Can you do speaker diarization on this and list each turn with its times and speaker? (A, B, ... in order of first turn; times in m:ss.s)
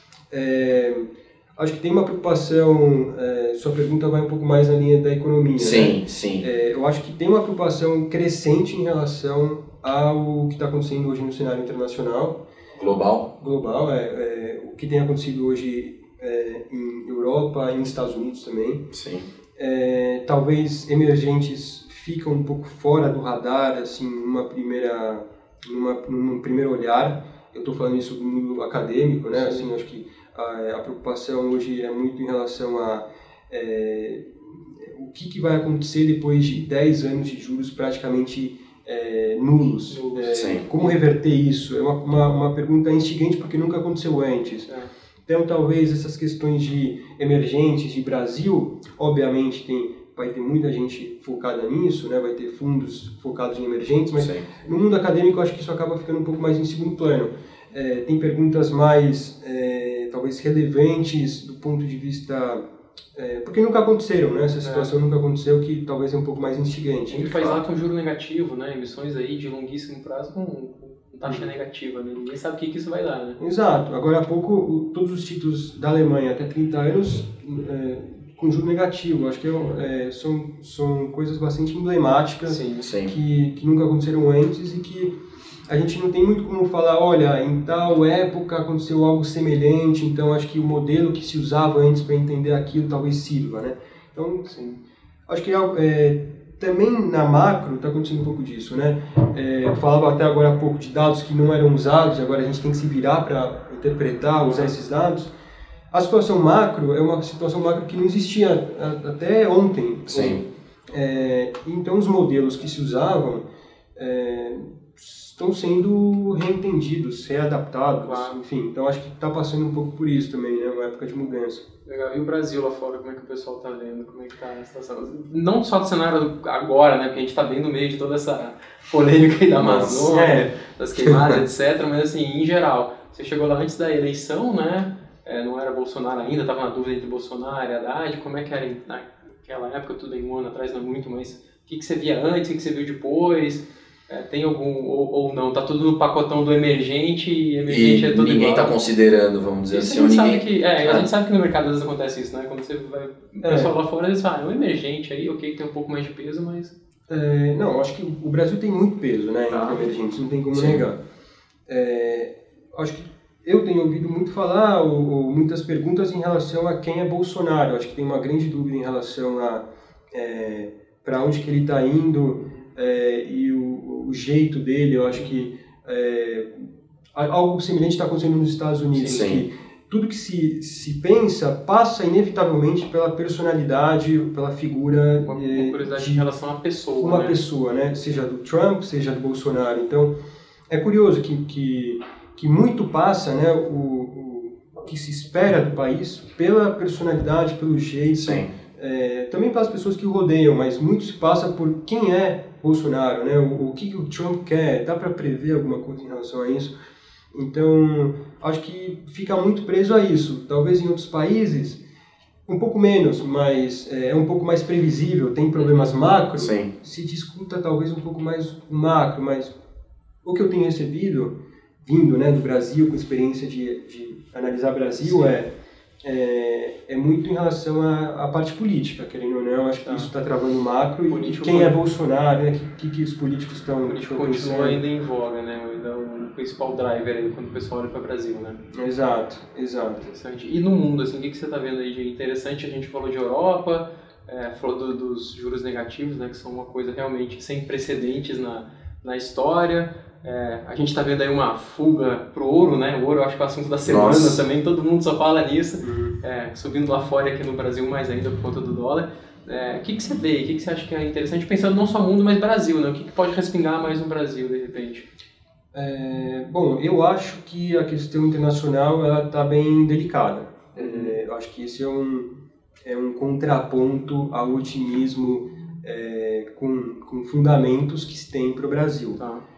0:00.3-0:12.4 A
0:05.6-0:06.5 B
0:12.8-0:13.3 B
0:13.4-0:18.9 A
0:18.9-0:19.3 B
0:19.6-0:44.7 A
0:29.3-0:29.7 C
0:39.9-0:40.9 C
0:40.3-0:40.7 B
0:45.3-1:02.6 A
0:54.2-0:54.5 B
1:03.2-1:07.3 A
1:04.6-1:04.9 C
1:07.1-1:13.4 C
1:07.3-1:07.6 B
1:11.2-1:11.5 A
1:13.4-1:25.1 A
1:22.5-1:22.9 C
1:22.8-1:23.1 B
1:25.7-1:34.8 A
1:35.3-1:45.3 A
1:44.4-1:44.7 C
1:45.9-1:53.4 A
1:50.1-1:50.4 B
1:54.0-2:01.6 A
1:58.0-1:58.4 C
2:01.9-2:28.8 C
2:09.6-2:10.1 B
2:10.0-2:10.5 A
2:27.7-2:31.1 B
2:29.7-2:36.7 C
2:33.4-2:33.7 A
2:37.1-2:41.0 A
2:39.5-2:39.8 C
2:40.5-2:40.8 B
2:41.7-3:06.3 A
2:55.2-2:55.5 C
2:58.9-2:59.3 C
2:59.1-2:59.4 B
3:05.2-3:07.4 C
3:07.0-3:10.1 A
3:10.7-3:26.7 A
3:18.2-3:18.5 B
3:27.3-3:31.8 A
3:32.5-3:39.5 A
3:35.6-3:36.1 C
3:36.4-3:36.7 B
3:40.2-3:41.3 A
3:41.9-3:45.5 A
3:45.0-3:45.4 C
3:46.0-3:54.8 A
3:49.8-3:50.1 C
3:51.1-3:51.7 C
3:53.9-3:58.6 C
3:58.7-4:00.0 A
4:00.0-4:25.1 C
4:13.9-4:14.4 B
4:15.8-4:16.2 A
4:25.7-4:32.3 A
4:30.8-4:31.2 C
4:32.8-4:39.2 A
4:39.2-4:39.4 C